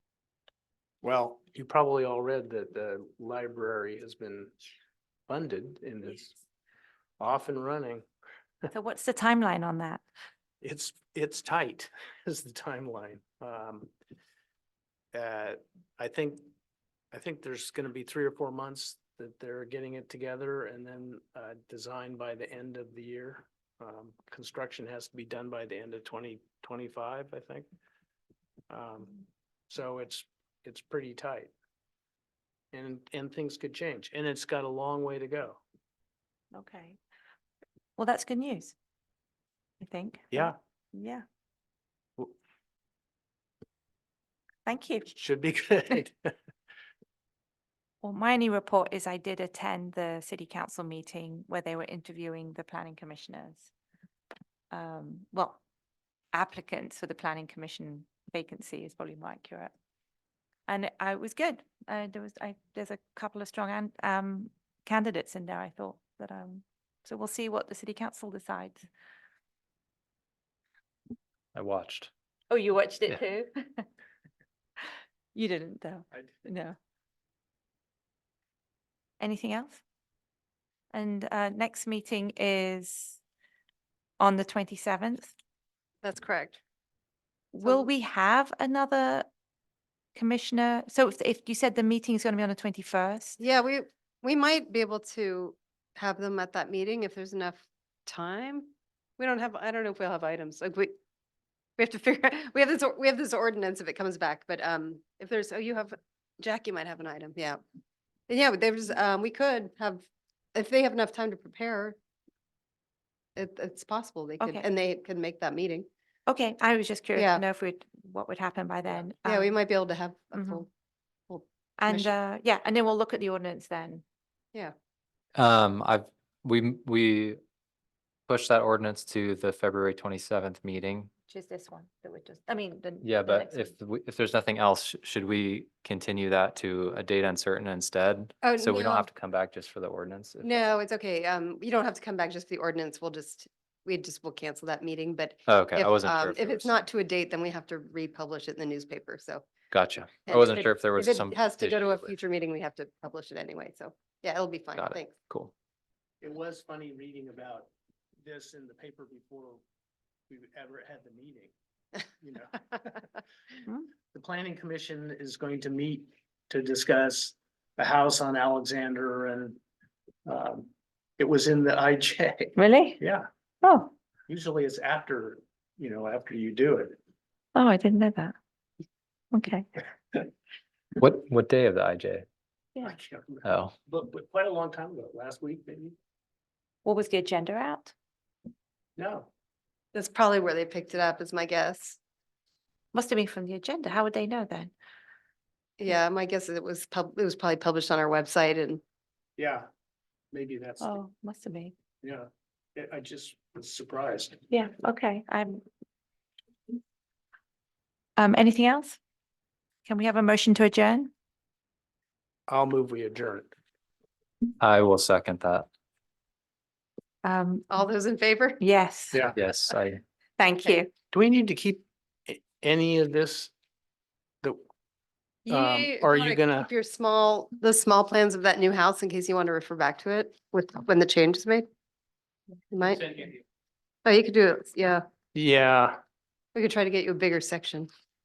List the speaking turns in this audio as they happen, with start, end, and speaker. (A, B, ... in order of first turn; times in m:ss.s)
0:01.0-0:04.5 A
0:05.3-0:06.3 A
0:07.2-0:08.0 A
0:08.7-0:10.0 B
0:10.6-0:13.9 A
0:15.1-0:16.5 A
0:17.1-0:27.7 A
0:28.7-0:29.2 A
0:29.7-0:31.5 A
0:32.7-0:35.6 A
0:36.5-0:37.0 B
0:38.0-0:38.8 B
0:39.8-0:41.2 B
0:44.6-0:45.1 B
0:45.1-0:46.2 A
0:48.0-0:53.7 B
0:54.7-0:55.6 B
0:56.3-0:59.7 B
1:00.7-1:08.9 B
1:11.5-1:12.1 C
1:12.5-1:13.9 B
1:15.3-1:16.8 B
1:19.2-1:19.8 B
1:20.9-1:23.2 B
1:24.2-1:25.3 B
1:26.0-1:26.6 D
1:27.5-1:29.3 B
1:30.1-1:33.4 B
1:33.4-1:40.9 D
1:41.8-1:47.6 D
1:48.3-1:52.0 D
1:53.4-1:55.9 D
1:54.4-1:54.6 B
1:56.3-1:59.5 B
1:57.1-1:57.4 D
1:59.2-2:00.7 D
2:00.3-2:00.6 B
2:01.3-2:02.1 D
2:01.8-2:04.0 B
2:05.3-2:07.4 C
2:08.3-2:11.1 C
2:11.3-2:13.7 B
2:13.0-2:20.6 C
2:18.4-2:19.1 D
2:20.4-2:29.4 D
2:25.5-2:26.8 C
2:29.7-2:32.1 C
2:30.3-2:35.1 D
2:34.8-2:35.5 C
2:36.2-2:37.7 A
2:38.2-2:39.6 A
2:40.3-2:41.5 A
2:42.2-2:43.0 A
2:44.1-2:49.6 A
2:50.2-2:53.3 A
2:52.6-2:53.0 B
2:53.6-2:53.9 B
2:54.3-2:57.0 A
2:57.5-2:58.4 B
2:59.3-2:59.7 B
3:01.0-3:02.2 C
3:02.8-3:05.9 A
3:03.4-3:03.7 C
3:06.8-3:07.9 B
3:09.0-3:09.3 A
3:09.9-3:12.0 D
3:12.9-3:14.7 B
3:15.8-3:18.8 D
3:19.4-3:19.6 A
3:20.3-3:21.0 A
3:20.8-3:21.7 B
3:22.0-3:24.4 A
3:24.5-3:25.6 B
3:28.2-3:29.0 B
3:29.8-3:31.1 B
3:32.5-3:33.5 A
3:34.6-3:35.7 C
3:37.2-3:37.7 B
3:37.7-3:38.6 D
3:38.6-3:39.2 B
3:39.3-3:40.0 C
3:40.4-3:40.9 B
3:41.1-3:43.5 A
3:45.4-3:51.6 D
3:45.5-3:46.7 A
3:52.7-3:53.1 D
3:53.0-3:53.3 A
3:54.0-3:55.0 D
3:55.3-3:56.0 A
3:56.5-3:57.9 D